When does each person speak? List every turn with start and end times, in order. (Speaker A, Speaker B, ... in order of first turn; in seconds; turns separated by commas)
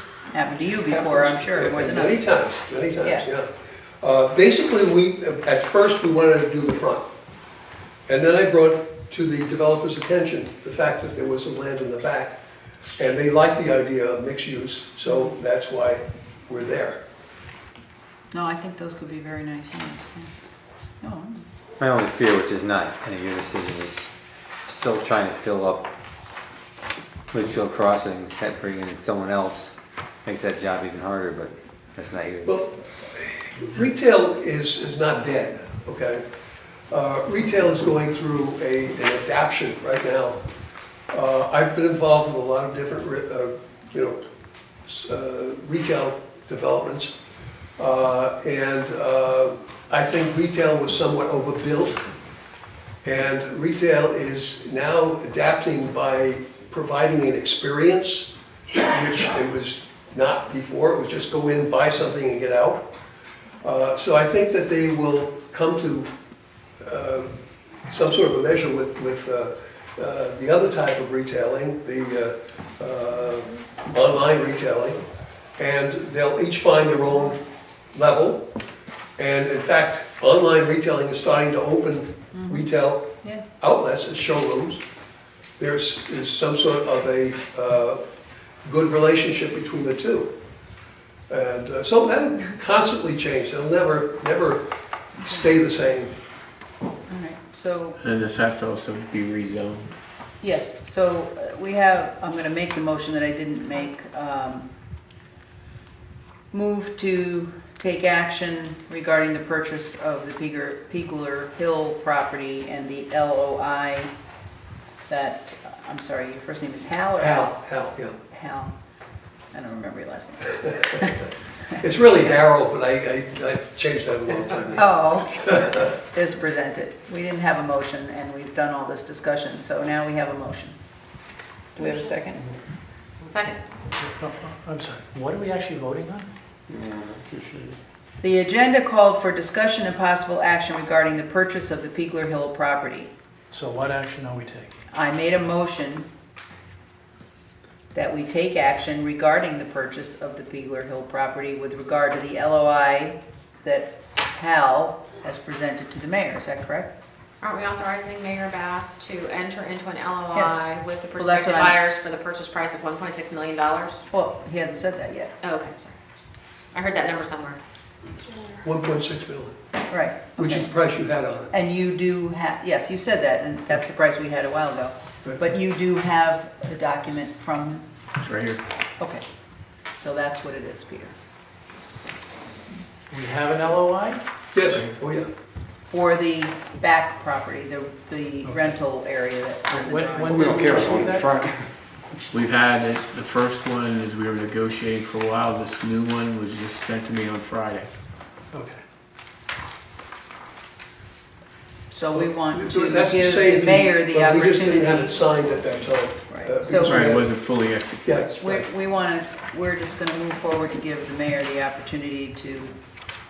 Speaker A: 0.3-2.2, Speaker B: 0.9-3.5, Speaker B: 4.0-7.0, Speaker B: 8.1-12.4, Speaker B: 13.0-17.0, Speaker A: 18.3-20.3, Speaker A: 21.0-21.4, Speaker C: 21.8-24.1, Speaker C: 24.7-25.9, Speaker C: 27.3-29.7, Speaker C: 30.3-32.5, Speaker B: 32.5-36.2, Speaker B: 36.9-40.4, Speaker B: 41.1-44.2, Speaker B: 44.9-47.1, Speaker B: 47.8-52.1, Speaker B: 53.0-62.9, Speaker B: 63.6-66.1, Speaker B: 66.8-75.0, Speaker B: 75.6-77.4, Speaker B: 77.9-78.4, Speaker B: 79.2-83.1, Speaker A: 82.3-82.7, Speaker B: 83.6-84.8, Speaker B: 85.6-88.0, Speaker B: 88.7-90.3, Speaker B: 91.3-94.7, Speaker B: 95.2-96.2, Speaker A: 97.1-98.0, Speaker D: 98.0-99.9, Speaker A: 100.4-104.7, Speaker A: 106.5-114.1, Speaker A: 115.1-117.5, Speaker B: 117.2-118.2, Speaker A: 118.3-118.7, Speaker A: 119.5-121.3, Speaker B: 121.8-125.9, Speaker A: 124.8-130.8, Speaker A: 131.8-132.5, Speaker E: 133.3-133.6, Speaker F: 134.0-136.3, Speaker C: 136.7-137.6, Speaker A: 138.2-143.1, Speaker F: 143.5-144.8, Speaker A: 144.9-146.1, Speaker A: 147.9-156.9, Speaker E: 157.4-164.0, Speaker A: 160.3-160.6, Speaker A: 161.2-161.8, Speaker A: 164.1-165.3, Speaker E: 165.4-165.9, Speaker E: 166.7-167.6, Speaker B: 168.6-169.6, Speaker A: 169.9-170.7, Speaker B: 170.4-171.5, Speaker A: 171.5-177.8, Speaker D: 178.2-178.6, Speaker A: 179.0-179.2, Speaker A: 180.0-181.1, Speaker F: 183.1-184.2, Speaker B: 184.5-185.3, Speaker A: 185.9-190.8, Speaker F: 189.7-191.3, Speaker C: 190.3-191.5, Speaker D: 192.3-197.9, Speaker F: 198.5-198.8, Speaker A: 201.9-205.2, Speaker B: 202.2-207.3, Speaker A: 206.3-207.1, Speaker D: 206.8-208.3, Speaker B: 208.1-208.7, Speaker A: 208.4-212.7